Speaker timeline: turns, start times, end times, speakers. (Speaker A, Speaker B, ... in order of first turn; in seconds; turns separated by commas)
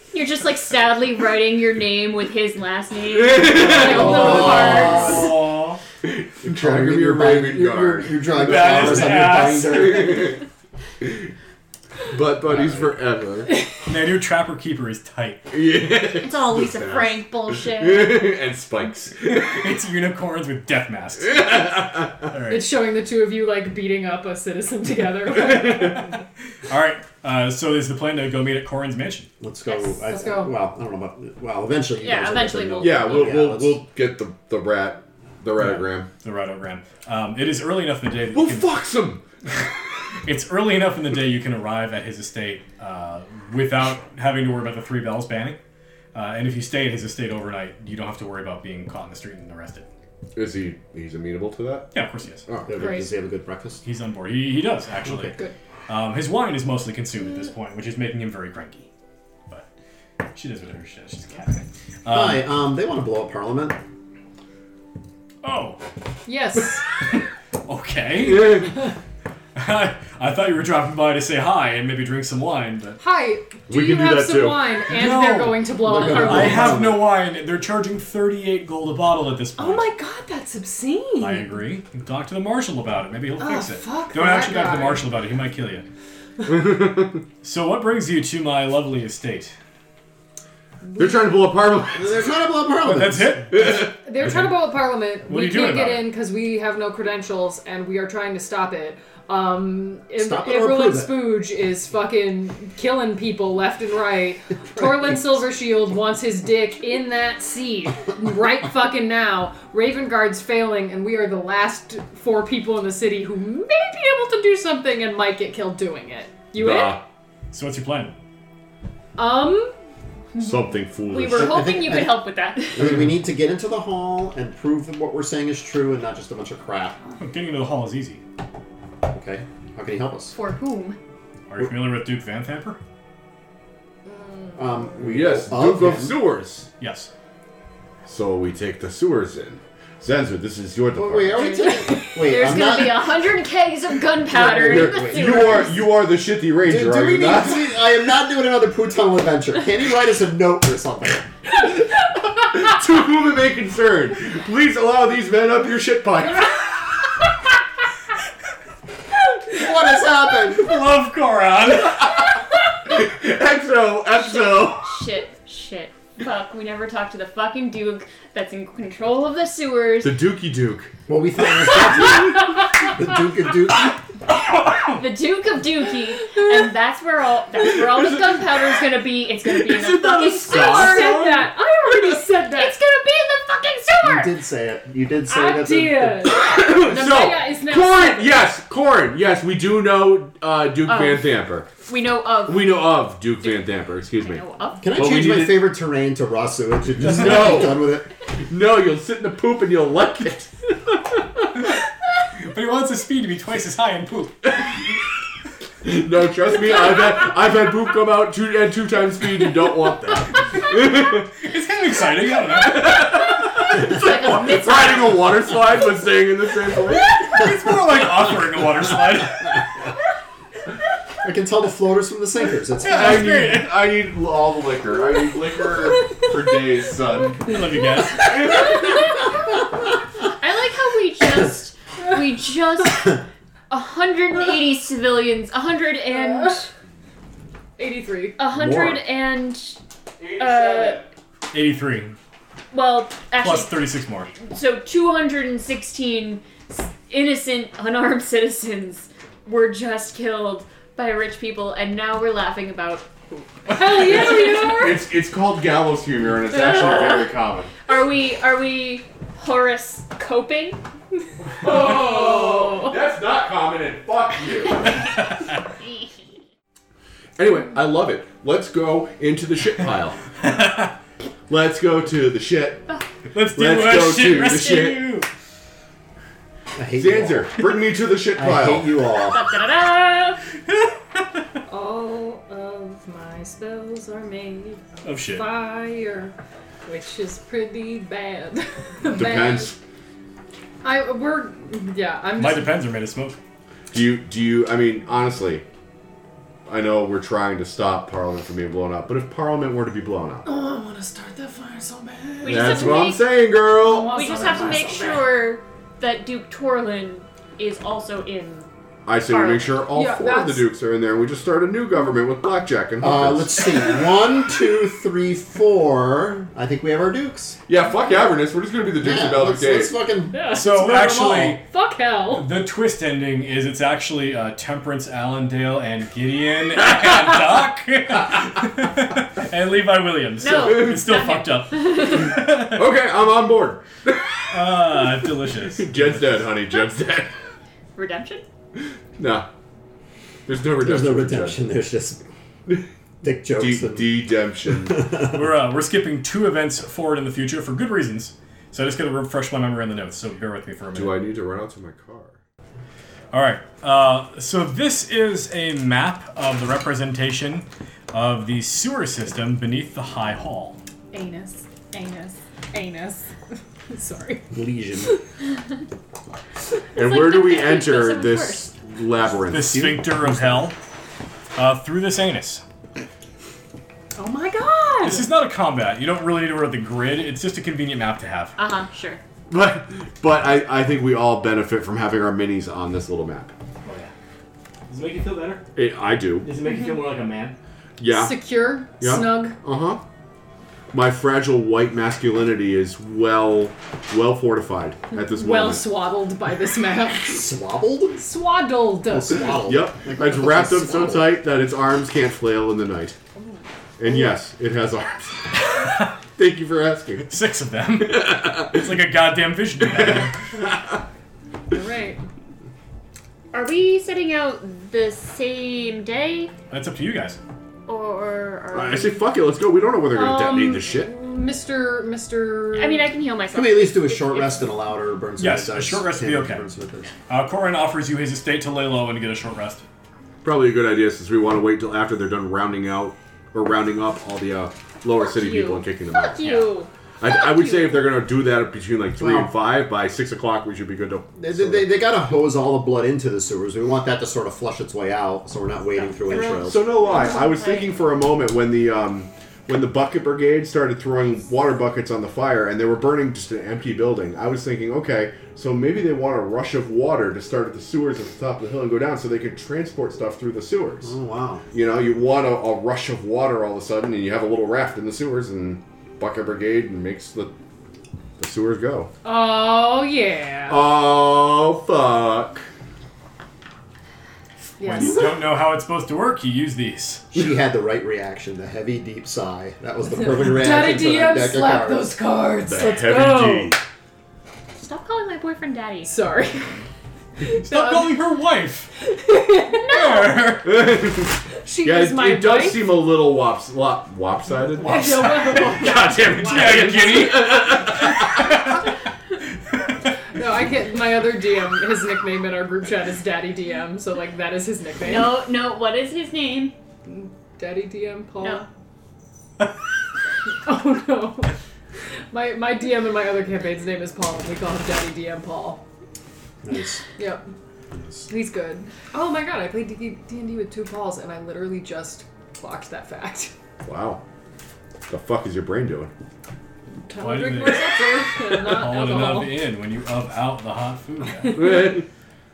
Speaker A: 0.1-5.3, Speaker B: 3.2-5.3, Speaker C: 3.6-5.3, Speaker D: 4.1-5.8, Speaker B: 6.0-10.4, Speaker C: 6.5-10.4, Speaker D: 8.4-10.0, Speaker B: 11.0-11.3, Speaker B: 12.1-13.7, Speaker C: 12.5-12.9, Speaker D: 13.9-15.5, Speaker B: 15.5-19.8, Speaker A: 16.1-18.3, Speaker D: 19.4-22.7, Speaker B: 21.3-22.3, Speaker E: 22.5-26.2, Speaker D: 25.8-29.3, Speaker C: 29.4-33.8, Speaker E: 30.1-30.6, Speaker A: 32.0-33.4, Speaker B: 32.8-36.1, Speaker D: 35.6-38.8, Speaker B: 38.3-39.2, Speaker D: 40.2-45.6, Speaker D: 46.1-49.9, Speaker B: 50.4-52.0, Speaker D: 51.9-52.5, Speaker B: 52.5-53.0, Speaker C: 52.7-53.8, Speaker E: 52.8-53.1, Speaker D: 53.8-58.9, Speaker E: 55.0-55.5, Speaker D: 60.3-62.5, Speaker C: 62.1-63.8, Speaker D: 65.4-65.8, Speaker E: 66.3-66.8, Speaker D: 67.7-68.9, Speaker B: 68.2-68.7, Speaker D: 69.5-73.0, Speaker E: 73.0-76.8, Speaker B: 73.7-74.7, Speaker D: 74.9-79.9, Speaker C: 75.8-77.1, Speaker E: 79.6-81.7, Speaker D: 81.2-85.8, Speaker E: 83.4-85.1, Speaker B: 86.4-87.2, Speaker D: 87.4-89.5, Speaker E: 90.8-91.3, Speaker B: 91.0-92.3, Speaker C: 92.0-93.5, Speaker D: 92.8-94.6, Speaker B: 93.5-94.0, Speaker E: 94.0-117.0, Speaker D: 95.3-96.1, Speaker C: 100.2-101.4, Speaker B: 116.5-117.0, Speaker D: 117.5-118.1, Speaker E: 119.2-119.7, Speaker A: 120.3-123.0, Speaker B: 120.4-121.7, Speaker C: 121.3-127.0, Speaker D: 127.2-128.2, Speaker C: 129.0-130.4, Speaker A: 130.3-131.0, Speaker D: 131.5-132.8, Speaker E: 134.1-135.2, Speaker C: 134.6-136.2, Speaker B: 135.0-136.7, Speaker D: 136.8-137.1, Speaker B: 138.1-141.6, Speaker C: 140.9-143.2, Speaker A: 141.3-145.9, Speaker C: 144.2-145.7, Speaker B: 144.6-147.7, Speaker C: 146.6-151.3, Speaker B: 152.3-157.0, Speaker C: 159.5-160.8, Speaker D: 160.5-162.2, Speaker B: 161.8-165.0, Speaker A: 164.1-170.2, Speaker B: 170.0-170.9, Speaker C: 171.1-174.0, Speaker D: 174.3-175.0, Speaker A: 174.8-181.2, Speaker B: 179.5-181.5, Speaker E: 180.5-182.8, Speaker A: 182.6-184.3, Speaker C: 184.0-186.3, Speaker E: 185.3-188.4, Speaker B: 186.3-191.7, Speaker A: 190.8-192.8, Speaker B: 192.5-195.7, Speaker A: 194.1-194.9, Speaker C: 194.8-198.1, Speaker B: 197.0-200.7, Speaker D: 202.4-204.6, Speaker B: 205.8-211.4, Speaker D: 211.4-213.2, Speaker B: 212.5-217.3, Speaker A: 213.7-215.4, Speaker D: 217.1-219.7, Speaker C: 221.2-223.4, Speaker D: 222.8-223.8, Speaker B: 222.9-227.6, Speaker D: 227.4-228.6, Speaker A: 230.2-236.7, Speaker E: 236.1-236.6, Speaker E: 237.8-238.4, Speaker A: 238.4-239.8, Speaker C: 238.6-239.0, Speaker B: 240.2-241.1, Speaker A: 240.3-241.1, Speaker D: 241.5-242.2, Speaker A: 242.7-254.8, Speaker D: 243.4-244.3, Speaker E: 253.7-255.0, Speaker B: 253.9-257.7, Speaker A: 256.5-257.3, Speaker A: 257.9-260.8, Speaker B: 261.4-265.0, Speaker E: 261.6-262.9, Speaker D: 265.1-265.6, Speaker B: 267.4-270.2, Speaker D: 270.4-270.9, Speaker B: 271.5-272.9, Speaker D: 273.3-275.3, Speaker B: 273.5-275.1, Speaker C: 276.8-277.7, Speaker B: 277.0-279.1, Speaker C: 278.3-279.4, Speaker A: 279.2-280.4, Speaker D: 280.7-281.4, Speaker E: 281.7-286.4, Speaker D: 285.0-285.5, Speaker E: 286.9-289.7, Speaker B: 289.1-289.8, Speaker E: 290.8-292.8, Speaker D: 292.4-293.4, Speaker B: 293.9-295.6, Speaker B: 296.7-300.4, Speaker E: 300.4-303.1, Speaker A: 302.4-303.3, Speaker B: 302.4-304.8, Speaker E: 303.8-305.3, Speaker A: 304.0-308.7, Speaker B: 309.1-313.9, Speaker A: 309.3-309.8, Speaker E: 309.9-310.7, Speaker C: 313.0-317.6, Speaker B: 317.7-319.9, Speaker C: 319.0-320.6, Speaker E: 320.3-322.5, Speaker D: 320.5-321.6, Speaker D: 322.3-332.9, Speaker A: 330.4-332.3, Speaker B: 330.4-331.1, Speaker B: 332.5-337.4, Speaker D: 334.5-336.5, Speaker A: 337.9-338.4, Speaker B: 338.8-339.5, Speaker B: 340.5-341.6, Speaker C: 340.8-342.3, Speaker C: 343.2-345.5, Speaker B: 343.6-345.1, Speaker D: 345.2-351.2, Speaker B: 350.9-352.4, Speaker D: 353.3-360.8, Speaker E: 361.1-363.3, Speaker E: 363.9-365.2, Speaker C: 364.5-365.2, Speaker B: 366.9-370.0, Speaker A: 367.0-368.7, Speaker D: 369.5-370.8, Speaker C: 369.6-370.7, Speaker D: 371.6-372.6, Speaker E: 374.2-375.3, Speaker D: 375.0-378.6, Speaker A: 378.6-379.2, Speaker B: 379.5-383.5, Speaker D: 383.9-384.1, Speaker D: 384.9-385.6, Speaker B: 385.8-386.5, Speaker D: 386.4-387.6, Speaker B: 388.0-388.4, Speaker E: 388.1-389.6, Speaker B: 389.0-390.0, Speaker B: 390.9-395.9, Speaker E: 395.1-397.5, Speaker C: 397.3-398.2, Speaker E: 398.1-399.6, Speaker C: 399.1-401.4, Speaker B: 399.6-403.2, Speaker B: 404.0-407.3, Speaker D: 405.8-406.1, Speaker D: 407.3-410.4, Speaker B: 408.0-409.0, Speaker B: 409.8-411.0, Speaker E: 411.7-412.2, Speaker A: 413.5-416.5, Speaker D: 416.7-417.4, Speaker A: 417.9-419.2, Speaker B: 418.7-421.1, Speaker E: 420.1-423.1, Speaker A: 422.7-424.8, Speaker C: 423.5-427.1, Speaker D: 425.4-426.6, Speaker D: 427.3-429.9, Speaker B: 430.4-436.7, Speaker A: 435.2-438.1, Speaker B: 437.2-441.9, Speaker C: 439.2-439.5, Speaker C: 441.4-447.0, Speaker A: 446.0-448.0, Speaker B: 446.3-461.1, Speaker C: 461.0-461.6, Speaker B: 461.7-467.6, Speaker B: 468.4-469.1, Speaker E: 469.2-470.8, Speaker B: 470.7-472.7, Speaker E: 474.8-475.4, Speaker D: 474.8-477.3, Speaker C: 477.3-482.1, Speaker E: 480.2-483.8, Speaker B: 482.6-483.8, Speaker A: 484.8-486.2, Speaker E: 486.1-486.8, Speaker E: 487.4-488.2, Speaker D: 487.4-488.9, Speaker E: 489.0-490.3, Speaker D: 489.9-490.7, Speaker B: 490.6-498.5, Speaker E: 491.6-492.9, Speaker E: 494.8-497.4, Speaker D: 494.9-495.9, Speaker D: 496.4-497.9, Speaker E: 500.3-505.4, Speaker A: 505.0-506.8, Speaker E: 507.1-508.7, Speaker E: 510.6-511.5, Speaker E: 512.3-515.8, Speaker C: 516.6-517.0, Speaker E: 517.2-517.5, Speaker C: 517.9-518.3, Speaker E: 518.3-523.5, Speaker B: 523.8-524.2, Speaker B: 525.1-526.1, Speaker E: 527.1-529.6, Speaker D: 527.2-531.7, Speaker B: 531.5-532.1